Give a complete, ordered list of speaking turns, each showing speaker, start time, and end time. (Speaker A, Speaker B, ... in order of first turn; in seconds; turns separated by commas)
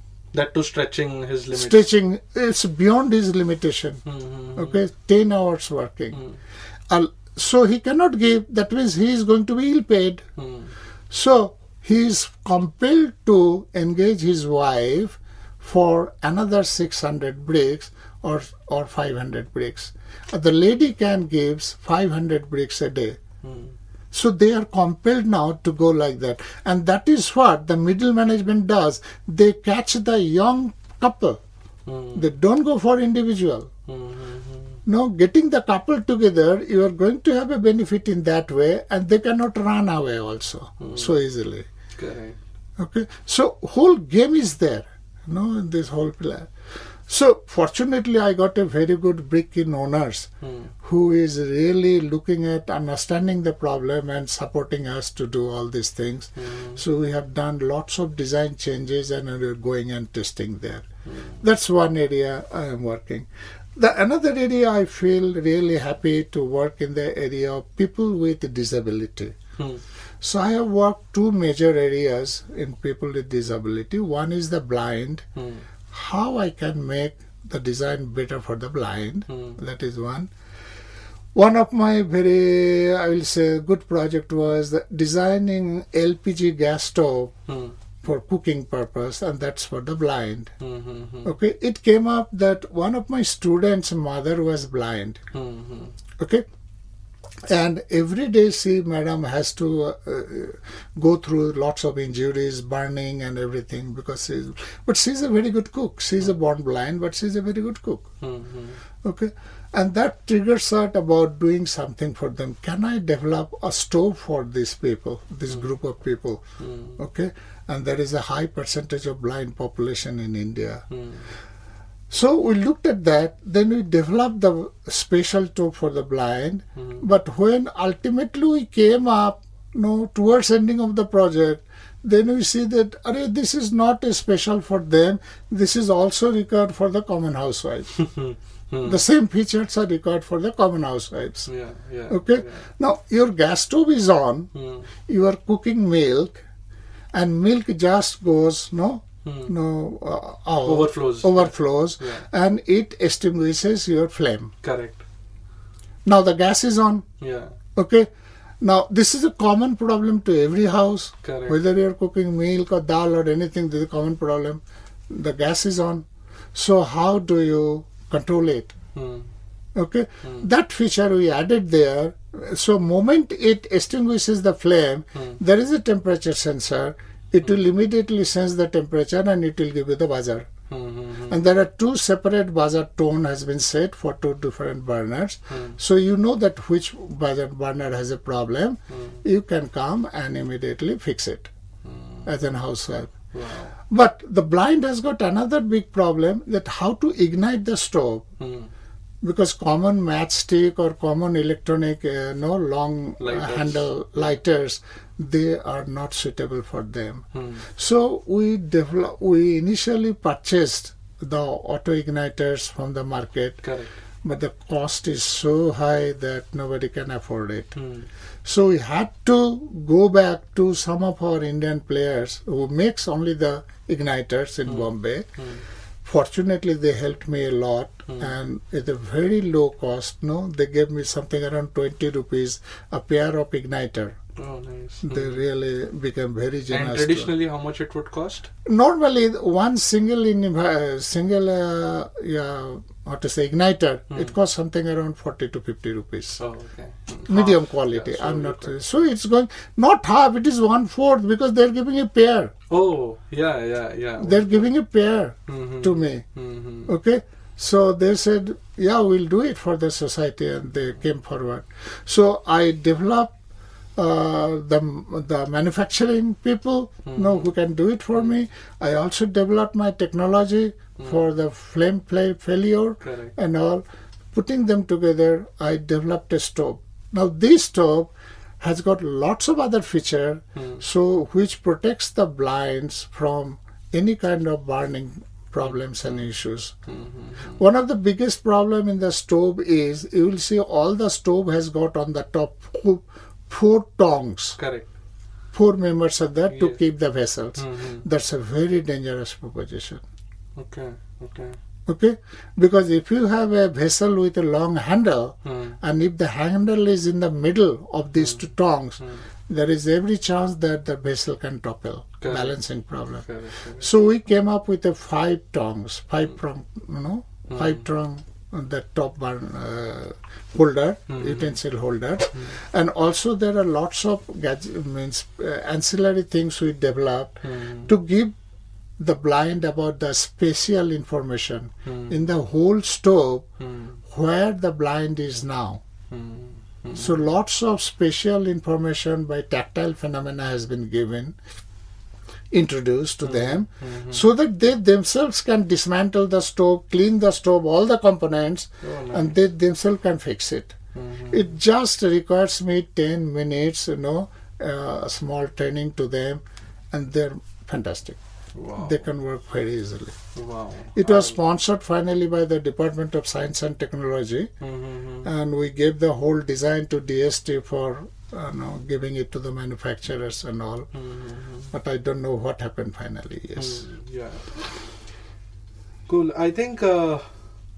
Speaker A: 0.3-1.9, Speaker B: 1.5-4.0, Speaker A: 4.0-4.8, Speaker B: 4.5-6.2, Speaker B: 6.9-10.2, Speaker A: 10.4-10.7, Speaker B: 11.1-23.2, Speaker A: 23.4-23.7, Speaker B: 24.1-31.4, Speaker A: 31.9-32.3, Speaker B: 32.1-33.7, Speaker A: 33.9-34.8, Speaker B: 34.9-41.6, Speaker A: 40.8-41.1, Speaker A: 42.0-42.4, Speaker B: 42.8-46.5, Speaker B: 47.1-50.3, Speaker A: 50.4-50.7, Speaker B: 50.8-60.9, Speaker A: 56.4-56.8, Speaker A: 61.0-61.4, Speaker B: 61.4-69.3, Speaker B: 70.2-75.2, Speaker A: 75.3-75.6, Speaker B: 75.9-80.3, Speaker A: 79.3-79.6, Speaker B: 81.3-87.3, Speaker A: 87.5-87.8, Speaker B: 88.0-90.5, Speaker A: 90.6-91.3, Speaker B: 91.2-95.2, Speaker A: 95.3-95.9, Speaker B: 96.2-96.4, Speaker B: 97.5-108.0, Speaker A: 108.2-108.8, Speaker B: 109.0-116.4, Speaker A: 116.6-117.0, Speaker B: 117.0-120.8, Speaker A: 120.9-121.3, Speaker B: 122.1-137.9, Speaker A: 126.8-127.0, Speaker A: 137.9-139.0, Speaker B: 138.8-141.5, Speaker A: 141.4-142.6, Speaker B: 142.1-144.5, Speaker A: 144.5-144.9, Speaker B: 145.1-146.4, Speaker B: 147.1-154.5, Speaker A: 149.2-149.5, Speaker A: 150.6-152.2, Speaker A: 154.6-155.0, Speaker B: 156.0-157.0, Speaker A: 157.2-157.5, Speaker B: 157.8-158.1, Speaker B: 158.6-168.7, Speaker A: 161.2-161.6, Speaker A: 168.9-169.3, Speaker B: 169.8-180.5, Speaker A: 175.1-175.4, Speaker A: 180.7-181.4, Speaker B: 181.3-191.5, Speaker A: 185.5-185.8, Speaker A: 188.9-189.2, Speaker A: 191.8-192.3, Speaker B: 192.2-193.1, Speaker A: 193.3-193.7, Speaker B: 193.9-198.2, Speaker A: 198.4-198.7, Speaker B: 199.2-213.6, Speaker A: 203.2-203.9, Speaker A: 207.3-207.7, Speaker A: 213.6-213.9, Speaker B: 214.2-217.8, Speaker A: 217.8-218.1, Speaker B: 218.4-225.3, Speaker A: 224.7-225.6, Speaker B: 226.0-234.2, Speaker A: 234.4-235.4, Speaker B: 235.0-237.3, Speaker A: 236.7-238.5, Speaker B: 238.7-246.4, Speaker A: 246.4-248.8, Speaker B: 247.3-252.5, Speaker A: 252.7-254.7, Speaker B: 254.2-256.2, Speaker A: 255.5-256.9, Speaker B: 256.9-263.3, Speaker B: 263.9-286.7, Speaker A: 267.1-267.5, Speaker A: 273.0-273.3, Speaker A: 280.6-280.8, Speaker A: 285.6-286.2, Speaker A: 286.9-287.6, Speaker B: 287.5-294.6, Speaker A: 294.6-294.9, Speaker B: 295.5-300.0, Speaker A: 296.5-296.8, Speaker A: 297.6-298.0, Speaker A: 300.6-301.6, Speaker B: 301.9-313.2, Speaker A: 305.4-305.8, Speaker A: 308.2-308.4, Speaker A: 312.2-312.6, Speaker A: 313.2-313.9, Speaker B: 313.8-328.3, Speaker A: 317.5-317.8, Speaker A: 321.1-321.6, Speaker A: 327.4-327.9, Speaker B: 329.0-333.5, Speaker A: 331.9-332.2, Speaker A: 333.6-334.0, Speaker B: 334.1-335.8, Speaker A: 336.1-337.2, Speaker B: 336.9-341.4, Speaker B: 342.5-350.7, Speaker A: 343.2-344.3, Speaker A: 348.8-349.4, Speaker A: 350.9-351.5, Speaker B: 351.3-358.2, Speaker A: 358.5-359.0, Speaker B: 358.8-360.2, Speaker A: 360.3-361.4, Speaker B: 360.9-364.5, Speaker A: 364.6-365.3, Speaker B: 365.2-370.9, Speaker A: 370.9-371.7, Speaker B: 371.7-373.9, Speaker A: 373.6-374.6, Speaker A: 376.1-377.2